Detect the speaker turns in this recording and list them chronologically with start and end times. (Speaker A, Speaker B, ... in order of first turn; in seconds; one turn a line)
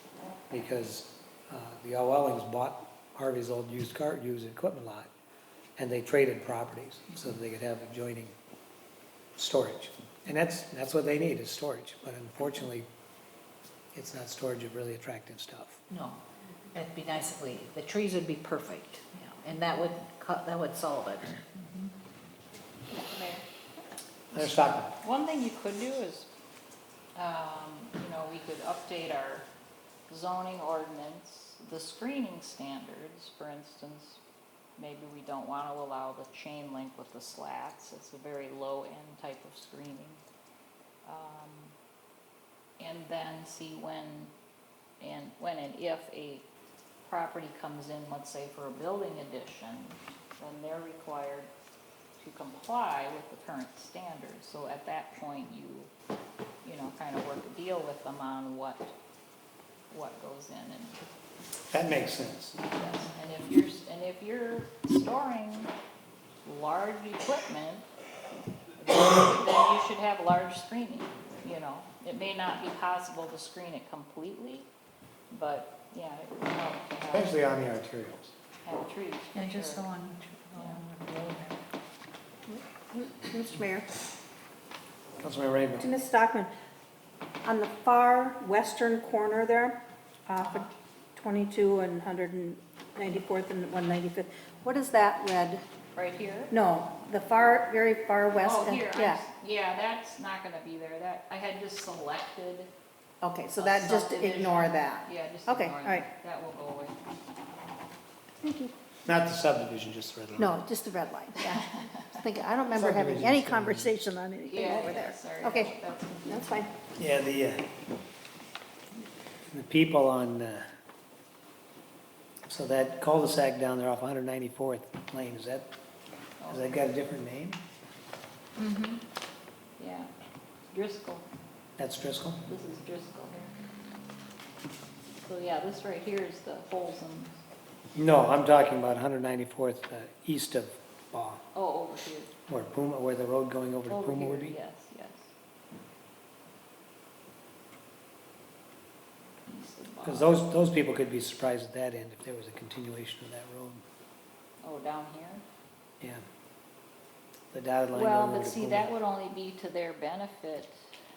Speaker A: 0.5-5.1
Speaker A: 5.8-8.3
Speaker A: 9.4-12.9
Speaker A: 13.9-15.8
Speaker B: 15.9-16.2
Speaker B: 16.7-21.9
Speaker C: 22.9-23.4
Speaker A: 24.3-25.0
Speaker C: 25.0-26.3
Speaker C: 27.1-29.5
Speaker C: 30.1-34.2
Speaker C: 34.8-40.2
Speaker C: 41.0-41.8
Speaker C: 42.8-44.3
Speaker C: 45.0-46.5
Speaker C: 47.0-51.5
Speaker C: 52.2-55.9
Speaker C: 56.6-58.9
Speaker C: 59.9-61.1
Speaker A: 61.7-62.6
Speaker C: 62.7-65.7
Speaker C: 66.5-67.9
Speaker C: 68.8-74.7
Speaker C: 75.3-77.3
Speaker A: 77.1-78.3
Speaker C: 78.6-79.9
Speaker B: 79.3-81.6
Speaker C: 80.6-80.8
Speaker D: 82.5-84.0
Speaker A: 85.2-85.9
Speaker D: 85.8-86.5
Speaker D: 87.4-95.6
Speaker C: 96.0-96.5
Speaker D: 96.5-99.2
Speaker C: 98.3-102.7
Speaker D: 103.2-106.1
Speaker C: 103.6-107.0
Speaker D: 108.4-108.7
Speaker A: 109.0-110.6
Speaker D: 110.4-115.7
Speaker C: 111.4-112.2
Speaker A: 112.7-113.9
Speaker C: 114.4-116.6
Speaker D: 116.2-116.7
Speaker A: 117.0-117.7
Speaker A: 119.5-120.7
Speaker A: 122.5-125.7
Speaker C: 126.4-126.8
Speaker A: 126.5-127.6
Speaker B: 128.6-129.0
Speaker C: 129.8-130.1
Speaker C: 130.7-131.3
Speaker A: 131.8-132.4
Speaker C: 132.5-133.5
Speaker C: 135.2-137.4
Speaker A: 137.9-141.4
Speaker C: 141.5-142.3
Speaker A: 142.5-144.6
Speaker C: 143.9-145.3
Speaker C: 149.5-150.3
Speaker A: 150.0-153.8
Speaker C: 154.6-155.4
Speaker A: 157.5-158.9
Speaker C: 157.9-160.9